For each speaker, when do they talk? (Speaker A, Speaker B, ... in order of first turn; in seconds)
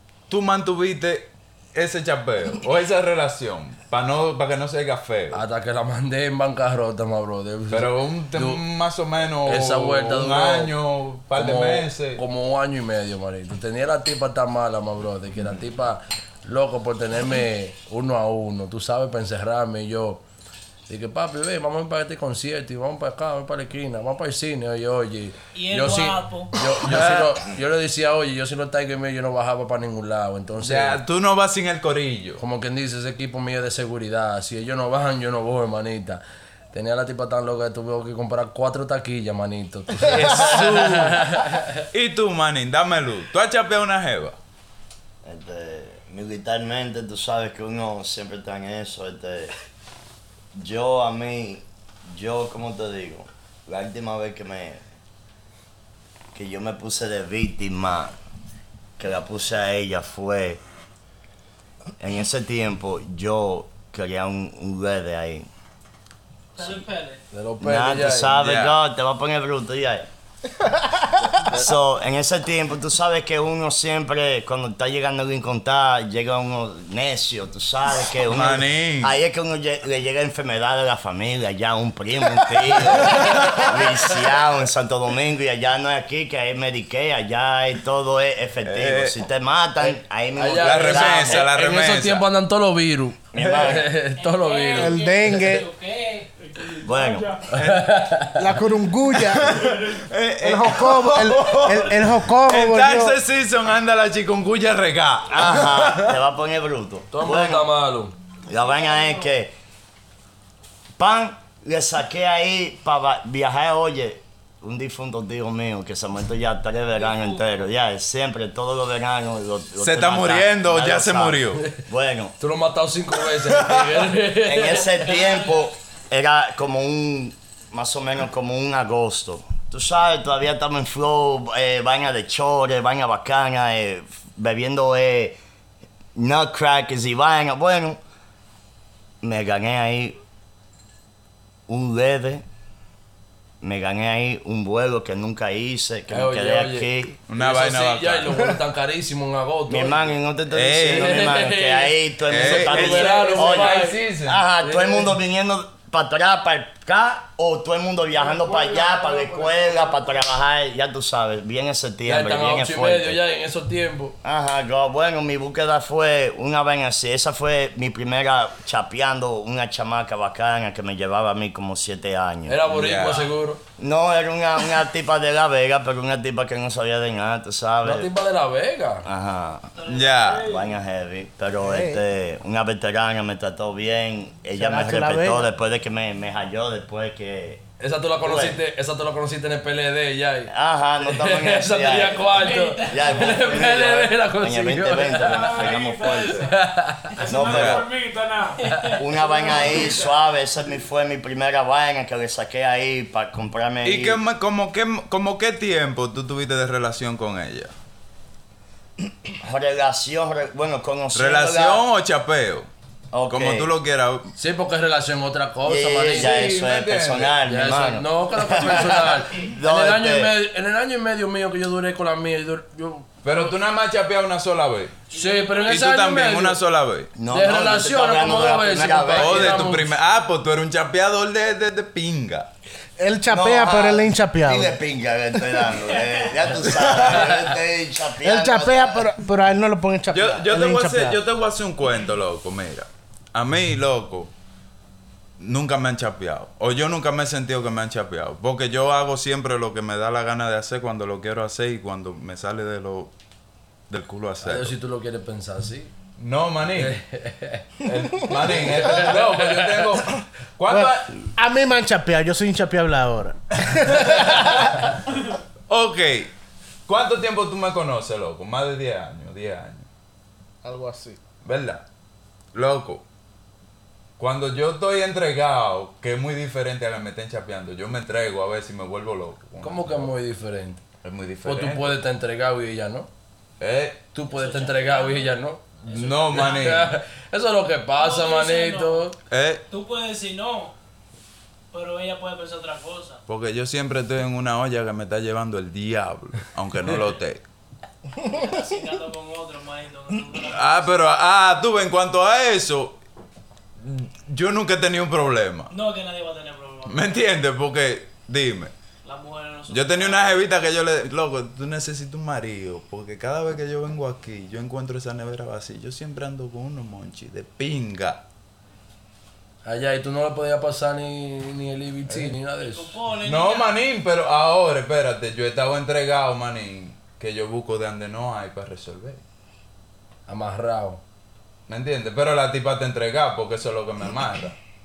Speaker A: 0.3-5.4, 7.7-12.2, 26.8-27.4, 30.6-32.4, 40.0-44.4, 68.3-68.8, 78.3-79.2, 83.1-83.6, 88.6-89.2, 90.5-92.3, 97.5-98.3, 99.3-106.2, 119.8-121.8, 123.5-123.9, 147.3-148.5, 150.5-151.4, 152.3-154.4, 172.7-173.3, 179.9-180.5, 197.4-197.8, 203.8-207.7, 211.1-212.7, 213.3-214.3, 216.1-217.4, 223.2-224.9, 225.7-227.1, 229.2-232.5, 240.1-244.3, 245.4-253.1, 253.9-254.8, 256.2-257.0, 257.8-261.1, 264.1-264.6, 265.7-266.3, 266.9-269.9, 271.4-271.8, 272.5-273.0, 274.2-280.1, 281.0-282.0, 283.6-284.1, 285.9-286.9, 289.3-289.6, 293.3-297.4, 300.4-303.0, 303.8-305.7, 306.9-308.7, 309.7-318.2, 322.1-322.4, 323.2-329.2, 331.7-334.6
Speaker B: 5.3-8.6, 9.4-10.8, 11.3-20.2, 20.9-31.0, 32.4-36.2, 36.7-41.8, 67.3-68.4, 83.1-83.7, 90.4-95.0, 97.5-98.4, 107.1-108.2, 122.4-124.9, 146.1-150.1, 150.8-154.0, 154.6-155.2, 162.1-164.2, 172.5-173.6, 177.8-179.1, 187.8-190.5, 191.0-195.7, 196.3-197.3, 214.4-216.5, 217.5-223.4, 225.1-226.6, 227.3-229.9, 254.4-255.9, 256.8-257.7, 258.4-260.0, 279.6-280.8, 281.4-283.1, 284.1-285.6, 286.3-289.1, 319.6-322.9, 330.3-331.0
Speaker C: 25.5-26.5, 66.6-67.2, 94.2-96.3, 108.5-109.4, 117.0-117.5, 124.7-125.7, 179.8-180.4, 192.3-193.7, 198.6-199.8, 225.1-225.8, 235.9-236.6, 284.3-286.6, 288.0-289.1, 289.7-290.7, 291.7-293.2, 298.2-301.1, 305.7-307.4, 309.0-310.5, 322.6-323.7
Speaker D: 45.2-49.5, 50.5-54.8, 56.3-58.1, 59.0-60.6, 62.0-65.5, 67.6-70.1, 71.5-91.5, 93.3-93.9, 96.8-97.3, 105.3-107.7, 108.5-109.5, 111.0-122.3, 124.4-135.4, 136.2-138.0, 139.2-140.2, 141.7-142.4, 143.6-147.2, 149.7-163.2, 164.2-172.7, 173.8-178.1, 179.1-179.7, 180.4-187.6, 188.2-188.6, 190.5-196.5, 197.2-197.9, 199.0-204.2, 209.4-211.8, 213.1-213.7, 215.7-220.3, 227.2-229.7, 233.3-239.1
Speaker E: 70.6-71.1, 94.8-95.7, 98.4-99.7, 100.4-103.2, 181.6-182.0, 184.5-185.5, 233.0-234.8, 238.2-241.2, 260.7-264.7, 270.6-271.2
Speaker F: 96.4-97.6, 99.5-100.0, 158.1-160.3, 180.2-180.8, 195.2-196.5, 197.2-198.7, 199.2-200.1